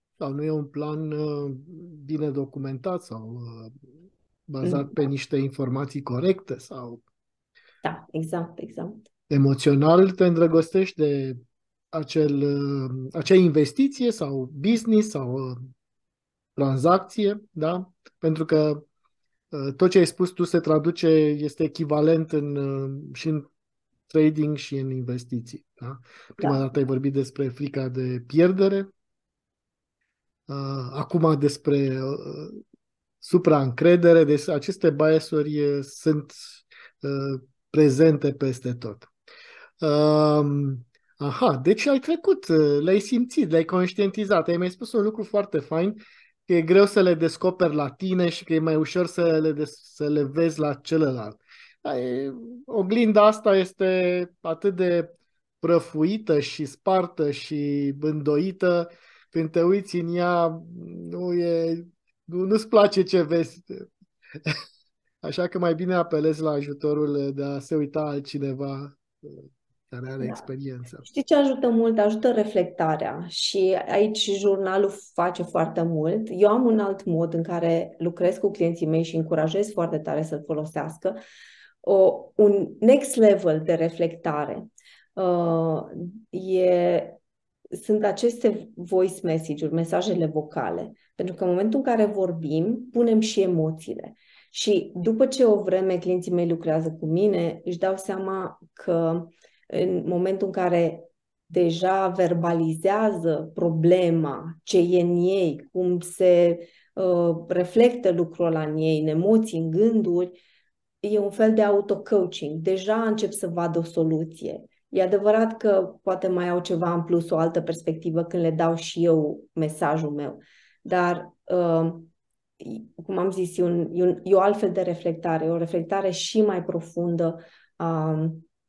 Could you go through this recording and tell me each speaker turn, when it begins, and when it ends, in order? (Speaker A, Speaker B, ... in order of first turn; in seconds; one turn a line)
Speaker A: 0.2-3.8
Speaker A: 4.5-7.0
Speaker B: 4.6-5.0
Speaker B: 7.8-9.1
Speaker A: 9.3-11.4
Speaker A: 11.9-15.6
Speaker A: 16.6-18.8
Speaker A: 19.5-23.5
Speaker A: 24.1-28.9
Speaker B: 26.4-26.7
Speaker A: 30.5-32.6
Speaker A: 33.2-39.1
Speaker A: 39.8-63.9
Speaker A: 65.2-71.0
Speaker B: 70.2-70.5
Speaker B: 71.0-81.2
Speaker B: 81.8-87.2
Speaker B: 87.7-110.4
Speaker B: 111.0-128.4